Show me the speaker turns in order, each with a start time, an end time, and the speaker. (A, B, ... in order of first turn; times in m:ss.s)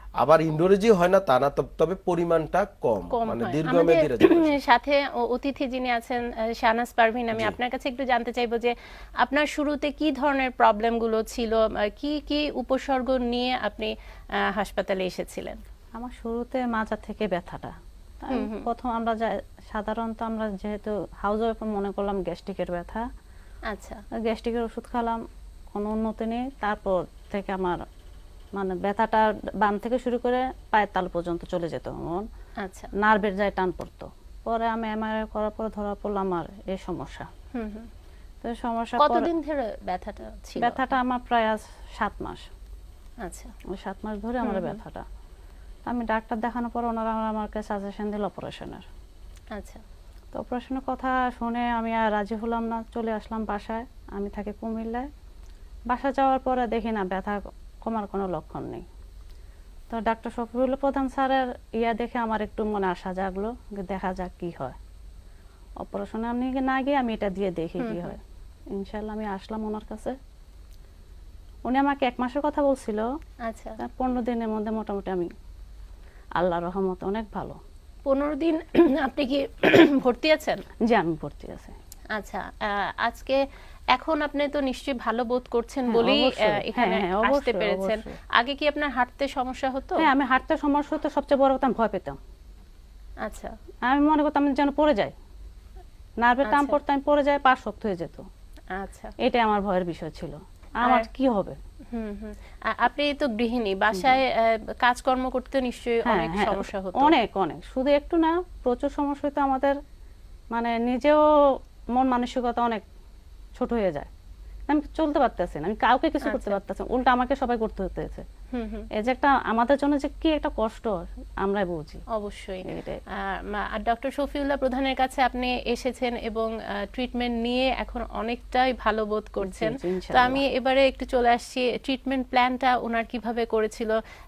0:00.2-0:04.5 A
0:03.1-0:13.9 B
0:14.5-0:15.6 B
0:16.0-0:23.0 C
0:18.3-0:18.7 B
0:23.7-0:24.0 B
0:24.2-0:25.2 C
0:25.7-0:27.8 C
0:28.6-0:32.2 C
0:32.6-0:32.9 B
0:33.0-0:37.3 C
0:37.5-0:37.9 B
0:38.4-0:39.3 C
0:39.0-0:40.8 B
0:40.6-0:42.5 C
0:43.2-0:43.5 B
0:43.7-0:45.0 C
0:44.4-0:44.8 B
0:45.9-0:48.8 C
0:49.5-0:49.8 B
0:50.3-0:55.1 C
0:55.9-0:58.8 C
0:59.9-1:04.8 C
1:05.8-1:08.2 C
1:07.8-1:08.2 B
1:08.8-1:10.1 C
1:11.7-1:13.0 C
1:13.4-1:13.8 B
1:13.8-1:15.3 C
1:16.4-1:17.6 C
1:18.0-1:20.6 B
1:20.9-1:21.8 C
1:22.1-1:23.4 B
1:23.9-1:30.0 B
1:25.9-1:28.2 C
1:30.0-1:32.2 C
1:33.2-1:33.5 B
1:33.9-1:35.1 C
1:36.2-1:38.2 C
1:36.5-1:36.8 B
1:38.7-1:39.1 B
1:39.2-1:41.6 C
1:40.8-1:41.1 B
1:41.9-1:47.1 B
1:43.9-1:44.2 C
1:46.1-1:49.7 C
1:50.5-1:51.2 C
1:52.0-1:52.8 C
1:53.6-1:54.1 C
1:54.7-1:58.2 C
1:56.2-1:56.6 B
1:58.5-1:58.8 B
1:59.0-2:00.9 C
2:01.4-2:02.0 C
2:02.1-2:02.6 B
2:02.7-2:03.0 C
2:03.2-2:14.0 B
2:09.4-2:10.4 C